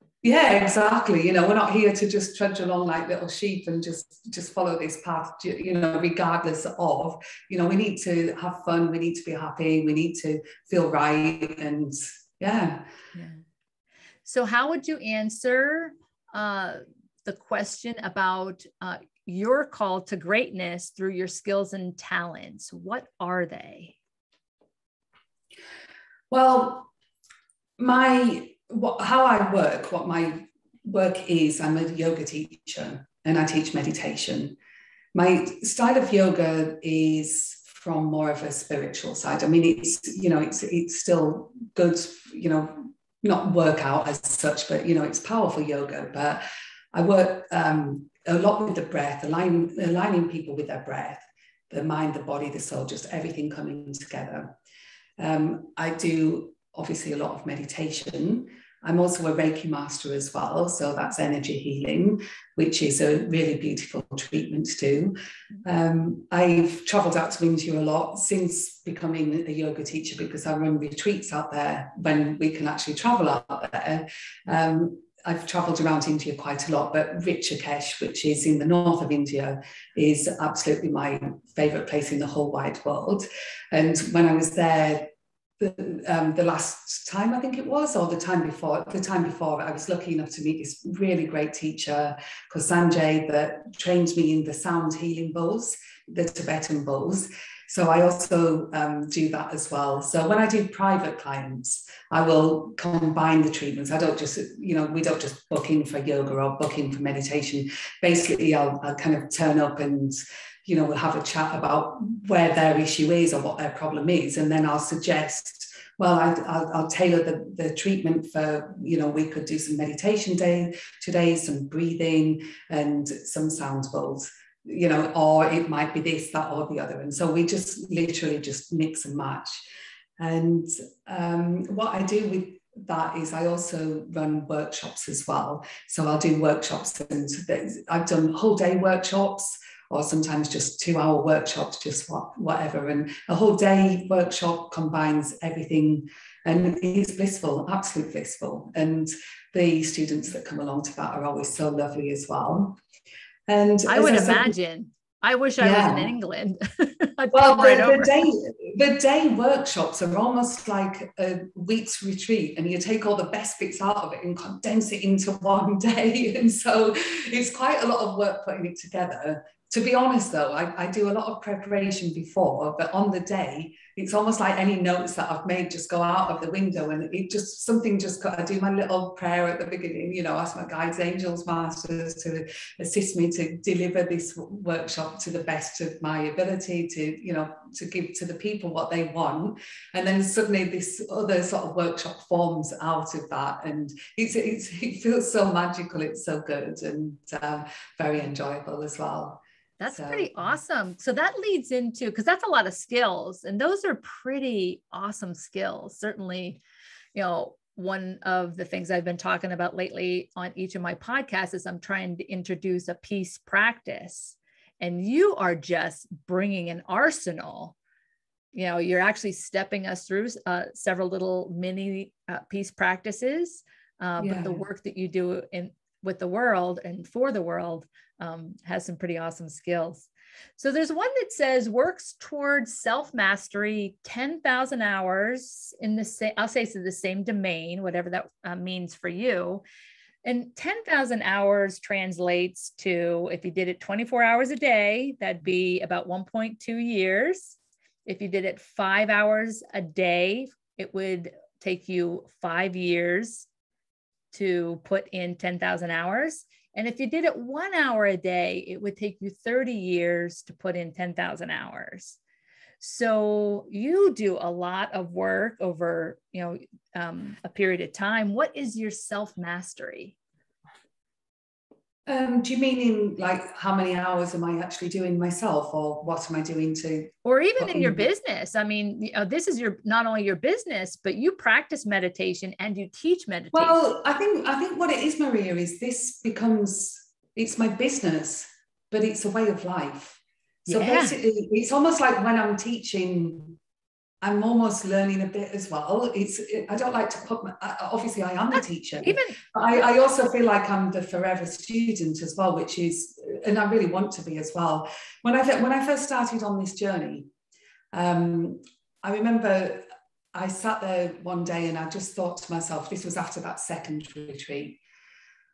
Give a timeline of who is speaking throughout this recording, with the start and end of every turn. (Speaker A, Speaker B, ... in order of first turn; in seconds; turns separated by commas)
Speaker A: 0.2-12.9, Speaker B: 13.1-13.4, Speaker B: 14.2-24.0, Speaker A: 26.3-26.9, Speaker A: 27.8-34.6, Speaker A: 35.1-54.5, Speaker A: 55.2-129.7, Speaker A: 130.2-152.8, Speaker A: 153.5-154.6, Speaker B: 153.9-158.2, Speaker A: 155.6-156.1, Speaker A: 157.3-200.3, Speaker B: 199.8-206.6, Speaker B: 207.1-217.8, Speaker B: 218.5-239.6, Speaker A: 224.2-224.6, Speaker B: 240.2-253.5, Speaker B: 254.3-262.2, Speaker B: 262.8-270.2, Speaker A: 272.1-278.1, Speaker B: 277.2-283.8, Speaker A: 283.5-293.6, Speaker B: 290.7-291.2, Speaker A: 294.2-307.3, Speaker B: 298.5-299.4, Speaker A: 307.9-314.8